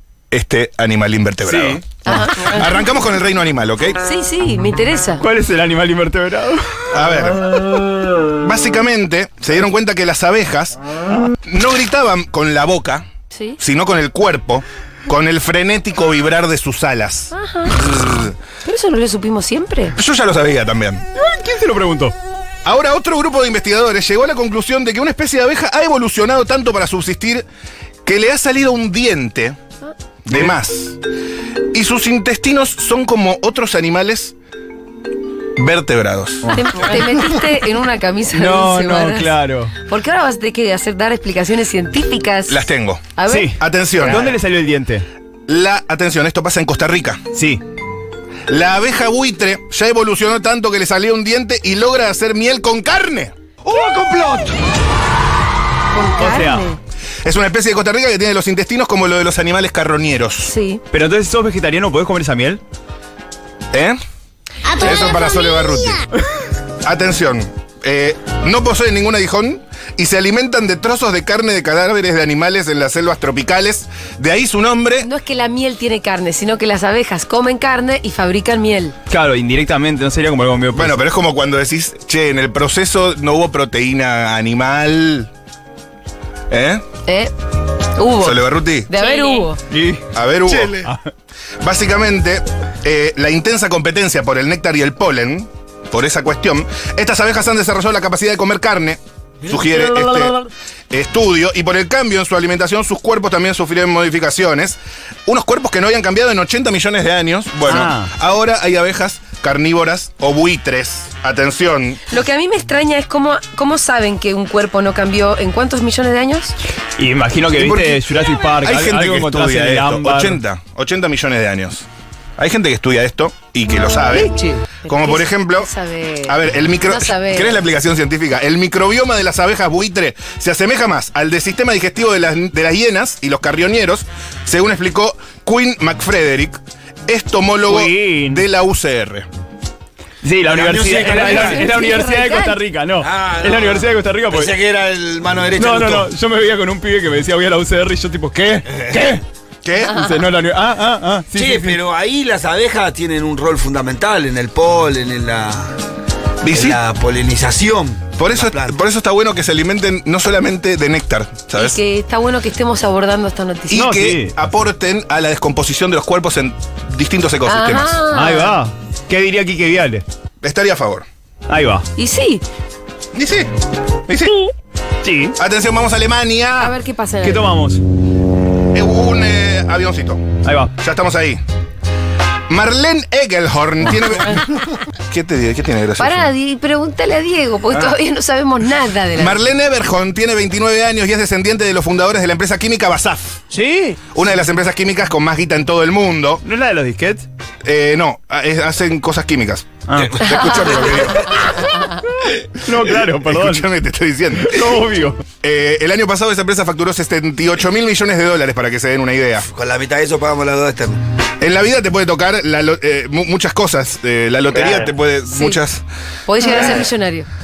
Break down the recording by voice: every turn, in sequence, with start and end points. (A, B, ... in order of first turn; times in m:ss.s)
0:00.3-0:04.0 A
0:01.4-0:01.8 B
0:02.0-0:02.8 C
0:04.0-0:05.2 C
0:05.2-0:06.9 B
0:06.9-0:07.4 A
0:08.4-0:10.8 A
0:11.4-0:13.0 A
0:13.3-0:13.6 C
0:13.6-0:18.3 A
0:17.3-0:17.9 C
0:18.6-0:20.0 C
0:20.0-0:21.0 A
0:21.1-0:22.1 B
0:22.6-0:27.4 A
0:28.0-0:29.6 A
0:30.2-0:31.0 A
0:31.7-0:34.3 A
0:35.6-0:36.5 A
0:36.4-0:37.0 B
0:36.5-0:42.6 C
0:38.3-0:39.7 B
0:42.5-0:44.3 A
0:43.2-0:43.5 C
0:43.3-0:45.0 B
0:45.5-0:47.2 A
0:47.3-0:47.6 B
0:48.5-0:53.5 A
0:53.7-0:54.5 B
0:55.9-0:56.8 C
0:56.2-0:56.6 B
0:57.2-1:00.5 A
1:00.4-1:00.8 C
1:00.9-1:02.6 B
1:03.7-1:04.0 A
1:04.7-1:06.1 A
1:06.8-1:15.1 A
1:15.0-1:18.9 C
1:19.1-1:21.0 B
1:20.7-1:25.3 A
1:26.5-1:26.8 A
1:27.0-1:27.3 C
1:28.0-1:29.6 C
1:28.2-1:28.9 A
1:29.7-1:30.1 B
1:30.1-1:30.9 A
1:30.7-1:31.1 B
1:31.6-1:40.4 A
1:39.7-1:40.5 B
1:40.9-1:52.0 A
1:47.7-1:48.1 B
1:52.1-1:56.5 C
1:57.0-2:00.4 B
1:57.5-1:58.0 A
1:58.6-2:01.8 A
2:02.4-2:04.3 A
2:04.1-2:07.6 C
2:04.9-2:05.7 A
2:06.2-2:19.3 A
2:17.7-2:18.4 B
2:20.2-2:24.6 B
2:20.4-2:22.0 D
2:21.0-2:22.6 C
2:23.0-2:26.1 D
2:25.6-2:29.2 B
2:28.7-2:29.2 D
2:29.6-2:30.0 A
2:29.9-2:31.8 B
2:31.3-2:35.8 D
2:36.4-2:36.8 A
2:36.5-2:38.8 D
2:38.2-2:41.8 A
2:41.5-2:43.9 C
2:43.7-2:48.0 A
2:43.7-2:44.3 B
2:47.5-2:48.6 C
2:48.1-2:50.0 B
2:50.4-2:51.1 A
2:51.5-2:51.8 B
2:52.0-2:52.4 C
2:53.1-2:53.5 A
2:54.1-2:54.3 A
2:55.0-2:55.4 B
2:55.4-2:56.7 A
2:56.6-2:57.5 C
2:57.2-2:57.8 B
2:58.7-3:00.3 A
3:00.4-3:00.7 B
3:00.8-3:01.4 A
3:02.5-3:04.4 A
3:05.1-3:06.3 A
3:06.0-3:09.4 C
3:09.2-3:13.4 A
3:13.5-3:14.0 B
3:14.1-3:16.4 A
3:16.4-3:17.2 B
3:17.6-3:21.4 A
3:19.9-3:20.2 B
3:19.9-3:21.4 D
3:21.8-3:23.6 B
3:22.8-3:24.8 A
3:24.4-3:25.2 B
3:25.4-3:29.4 A
3:29.4-3:31.0 D
3:31.4-3:35.8 A
3:34.5-3:34.9 D
3:35.3-3:35.6 C
3:36.3-3:37.3 C
3:36.4-3:36.9 A